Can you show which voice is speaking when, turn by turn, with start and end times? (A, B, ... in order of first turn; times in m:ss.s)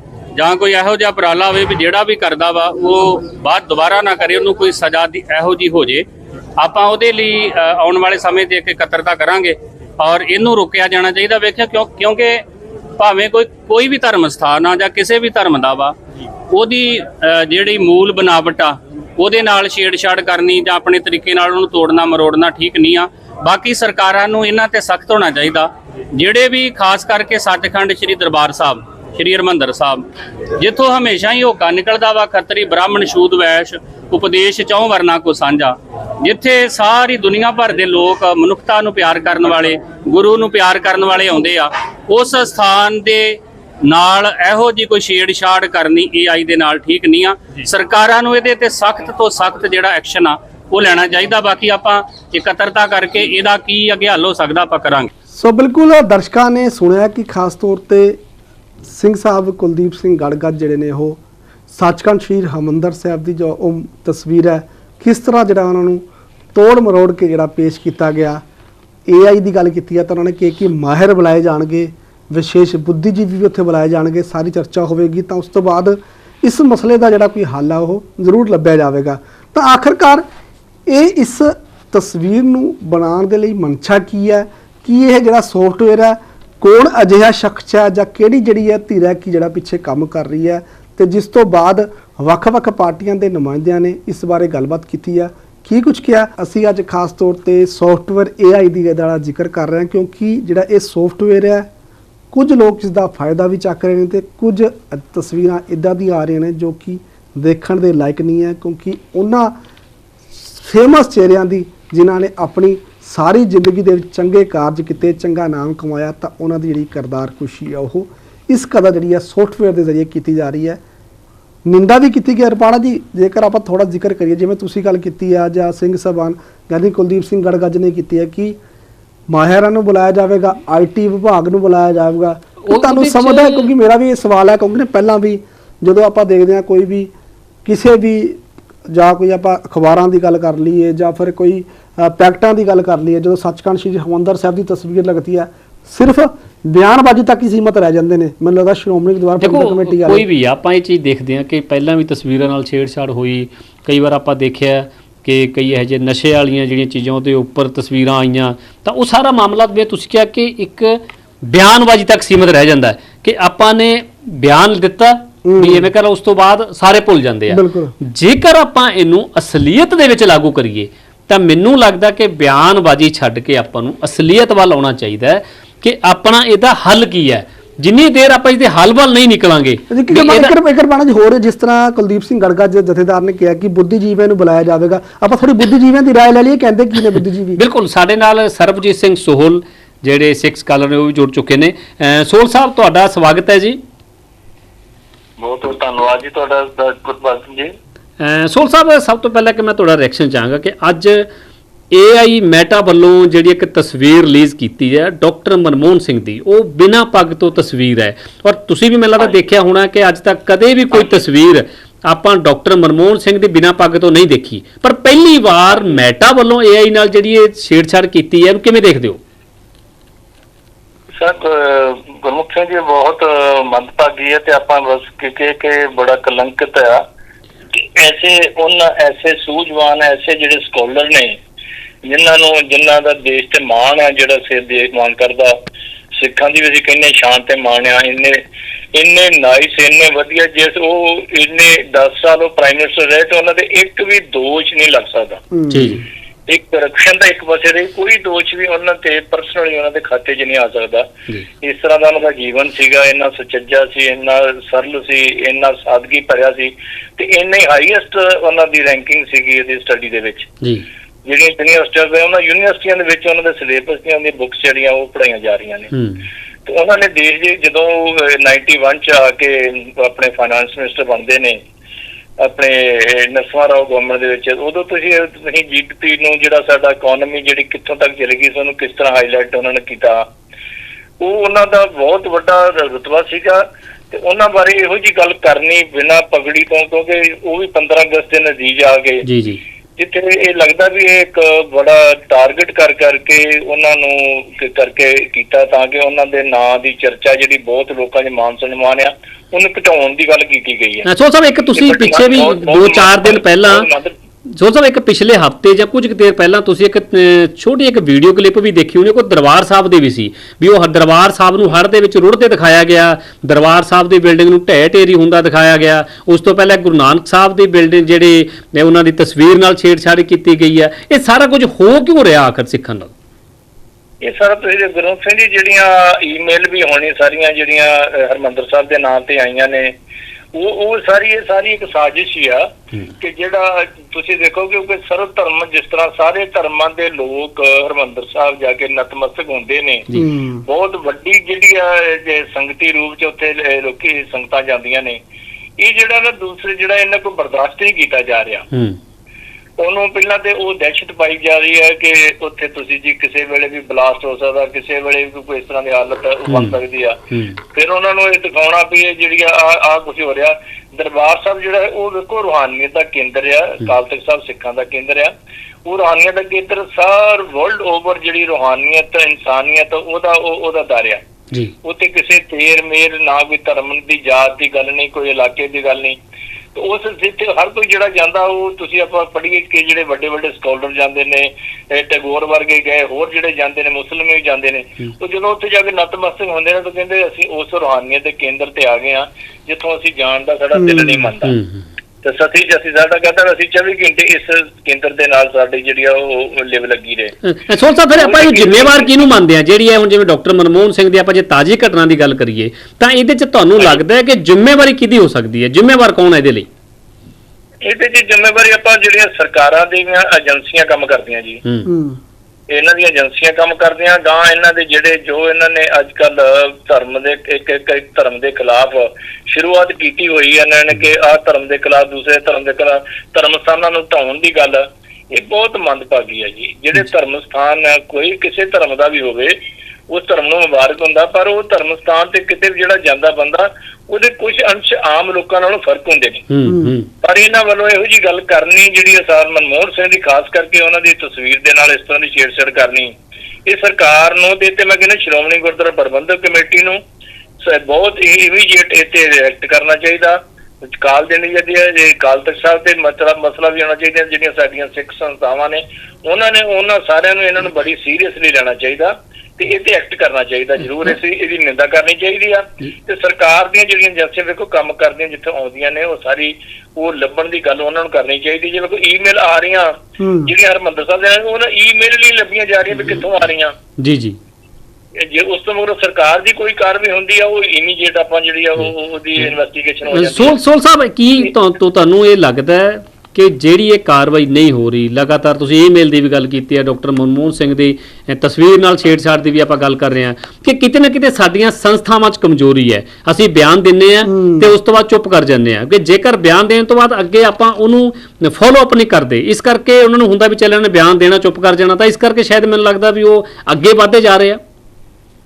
0:00.4-0:06.0 A
0:06.6-0:12.4 A
0:13.0-0:16.0 A
0:16.5-0:30.0 A
0:30.6-0:55.1 A
0:55.3-0:58.2 B
0:58.8-1:08.4 B
1:09.1-1:20.2 B
1:20.9-1:41.7 B
1:42.3-1:49.6 B
1:50.3-2:00.8 B
2:01.6-2:08.6 B
2:09.3-2:17.1 B
2:12.6-2:13.7 C
2:17.6-2:30.2 B
2:29.4-3:00.5 C
2:45.4-2:45.9 B
2:47.5-2:47.9 B
2:59.9-3:07.6 B
3:07.6-3:13.8 C
3:15.4-3:17.7 D
3:18.2-3:21.3 C
3:21.9-3:39.2 C
3:41.2-3:47.0 D
3:48.0-3:51.4 D
3:52.0-3:55.5 D
3:56.1-3:58.4 D
3:58.9-4:05.4 D
4:05.5-4:06.0 B
4:05.7-4:06.0 C
4:06.5-4:11.1 D
4:11.6-4:20.5 D
4:21.2-4:25.9 D
4:25.9-4:26.2 C
4:26.7-4:31.6 D
4:32.4-4:40.2 D
4:41.2-4:49.2 D
4:49.2-4:49.6 C
4:50.0-5:01.0 D
5:01.0-5:03.9 C
5:01.8-5:04.1 D
5:04.5-5:23.1 C
5:24.2-5:29.9 D
5:30.5-5:32.6 D
5:33.2-5:40.1 D
5:40.2-5:40.6 B
5:40.6-5:45.2 D
5:45.8-5:48.7 D
5:48.7-5:49.0 C
5:49.8-5:57.2 D
5:56.5-5:56.8 C
5:57.7-6:05.3 D
6:05.8-6:11.2 D
6:11.8-6:16.2 D
6:16.8-6:31.6 D
6:30.8-6:31.3 B
6:31.4-6:31.9 C
6:32.2-6:37.3 D
6:37.4-6:46.7 C
6:38.2-6:39.2 D
6:47.8-6:51.6 D
6:51.9-6:52.2 B
6:52.7-7:09.6 D
7:10.1-7:16.5 D
7:16.5-7:17.1 C
7:16.7-7:17.0 B
7:17.2-7:23.1 D
7:23.7-7:27.0 D
7:27.6-7:30.4 D
7:30.9-7:53.8 D
7:50.2-7:50.5 B
7:54.0-7:54.4 C
7:55.2-8:00.6 D
8:00.1-8:24.6 C
8:14.3-8:14.7 B